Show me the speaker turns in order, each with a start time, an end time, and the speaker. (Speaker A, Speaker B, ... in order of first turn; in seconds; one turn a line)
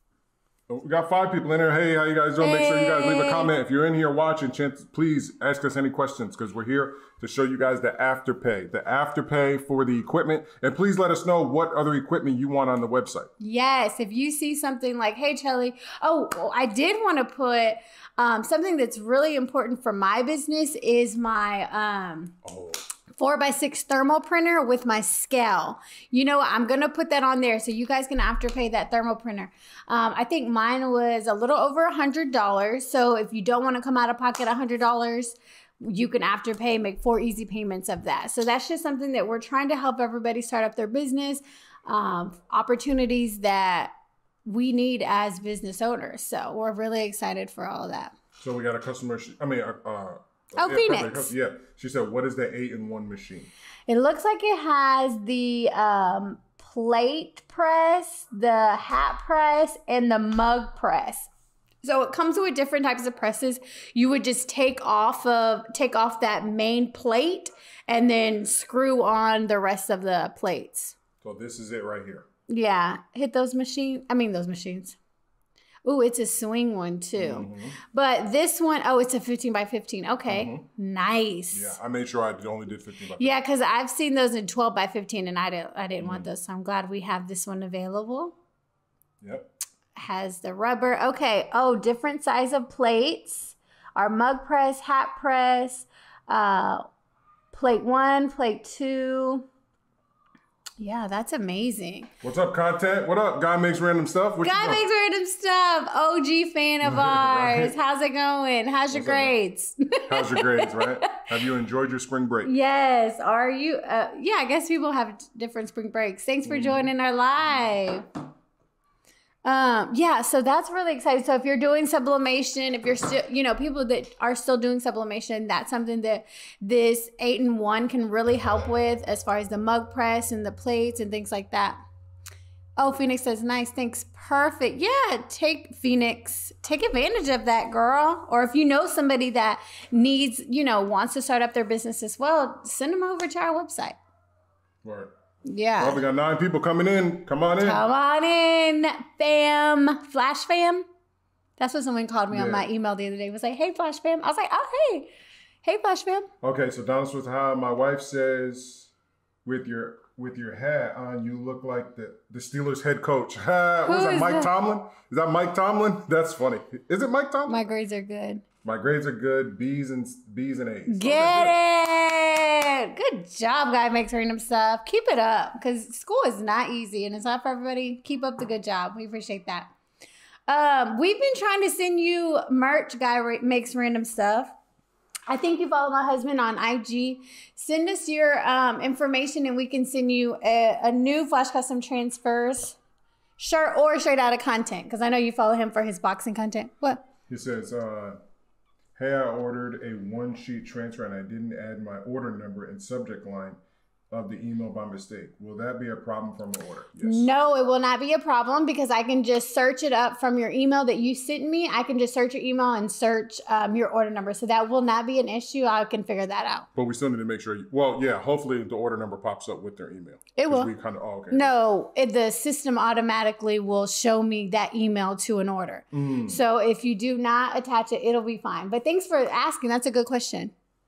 Speaker A: 0.7-13.3
Speaker B: 2.4-3.5
Speaker B: 13.4-22.4
Speaker A: 22.4-22.8
Speaker B: 23.1-43.9
Speaker B: 44.5-48.1
Speaker A: 48.4-53.5
Speaker B: 50.5-51.3
Speaker B: 53.9-61.3
Speaker B: 61.8-71.0
Speaker A: 71.2-72.2
Speaker B: 72.5-75.0
Speaker B: 75.8-81.8
Speaker A: 77.2-77.8
Speaker A: 80.3-80.6
Speaker A: 81.5-83.4
Speaker B: 83.2-88.3
Speaker A: 86.0-86.3
Speaker A: 89.2-89.5
Speaker B: 89.9-96.9
Speaker B: 97.5-99.5
Speaker B: 100.8-102.1
Speaker A: 102.2-104.8
Speaker B: 104.4-111.1
Speaker A: 106.8-107.8
Speaker A: 108.9-109.3
Speaker A: 110.1-112.5
Speaker B: 112.4-118.0
Speaker A: 116.5-116.9
Speaker B: 119.4-131.8
Speaker B: 132.8-144.0
Speaker A: 144.8-145.1
Speaker B: 145.4-146.0
Speaker A: 145.8-147.8
Speaker B: 147.6-150.8
Speaker B: 151.6-155.1
Speaker A: 152.3-152.7
Speaker B: 155.6-156.3
Speaker A: 156.4-158.9
Speaker A: 159.4-167.7
Speaker B: 163.8-164.5
Speaker B: 167.5-168.4
Speaker A: 168.6-171.6
Speaker B: 170.9-179.7
Speaker B: 180.5-184.5
Speaker B: 185.3-192.8
Speaker B: 193.4-197.0
Speaker A: 197.3-198.2
Speaker A: 198.9-203.6
Speaker A: 204.1-207.3
Speaker B: 207.0-216.7
Speaker A: 216.7-221.5
Speaker B: 220.3-220.7
Speaker B: 221.3-230.5
Speaker A: 225.9-226.4